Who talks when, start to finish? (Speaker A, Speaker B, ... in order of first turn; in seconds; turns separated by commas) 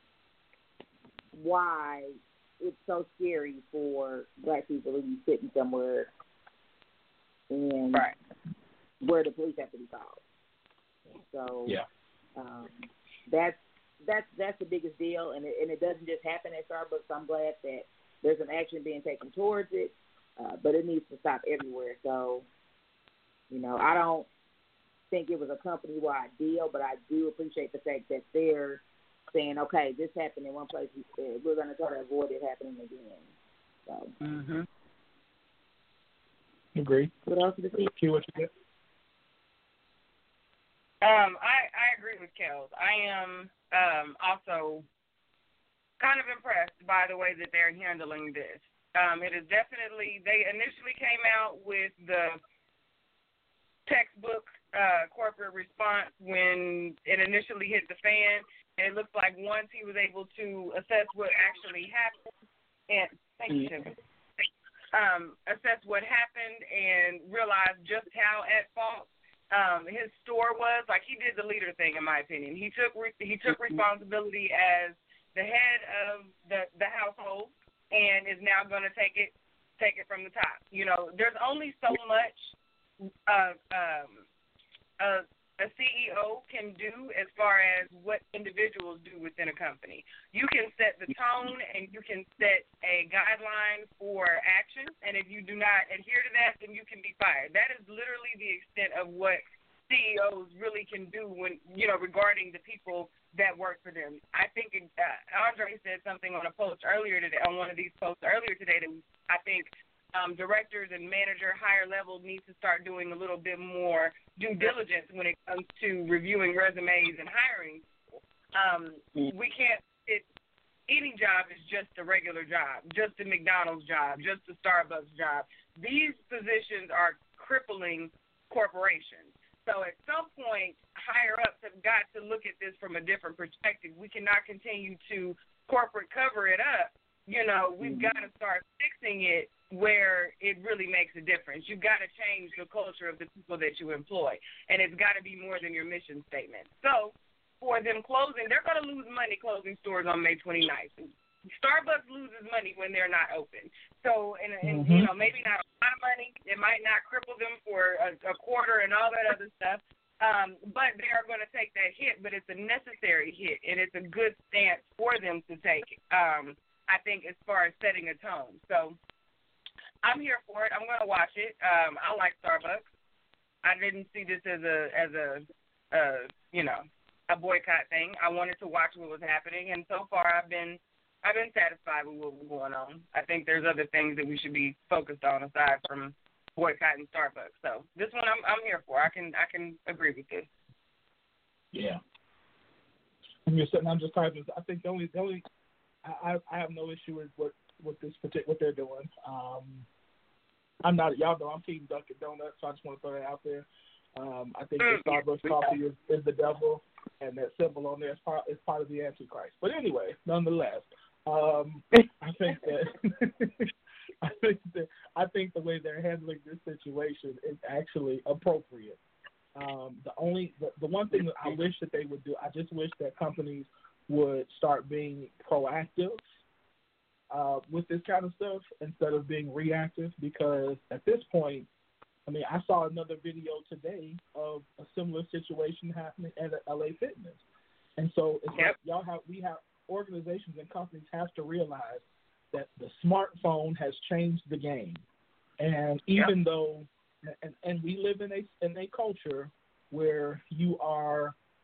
Speaker A: 1.3-6.1, Speaker A: 7.5-8.1, Speaker A: 9.0-10.2, Speaker A: 11.3-11.8, Speaker A: 12.3-22.5, Speaker A: 23.5-24.3, Speaker A: 25.1-28.8, Speaker A: 29.3-33.3, Speaker A: 33.9-34.1, Speaker B: 34.2-34.6, Speaker C: 36.7-37.1, Speaker A: 37.2-37.9, Speaker C: 37.8-38.5, Speaker B: 41.0-44.8, Speaker B: 46.0-52.4, Speaker B: 53.9-62.2, Speaker B: 62.9-63.9, Speaker B: 64.9-82.5, Speaker B: 83.3-84.2, Speaker B: 85.0-117.8, Speaker B: 118.5-120.2, Speaker B: 120.9-169.0, Speaker C: 154.6-155.1, Speaker B: 170.0-172.8, Speaker B: 173.6-190.5, Speaker C: 191.7-192.0, Speaker C: 193.5-195.4, Speaker C: 196.0-199.9, Speaker C: 200.8-213.7, Speaker B: 204.8-205.7, Speaker C: 214.2-219.0, Speaker C: 219.5-226.3, Speaker C: 227.3-231.7, Speaker C: 232.2-237.4, Speaker C: 238.0-245.0, Speaker C: 245.6-251.3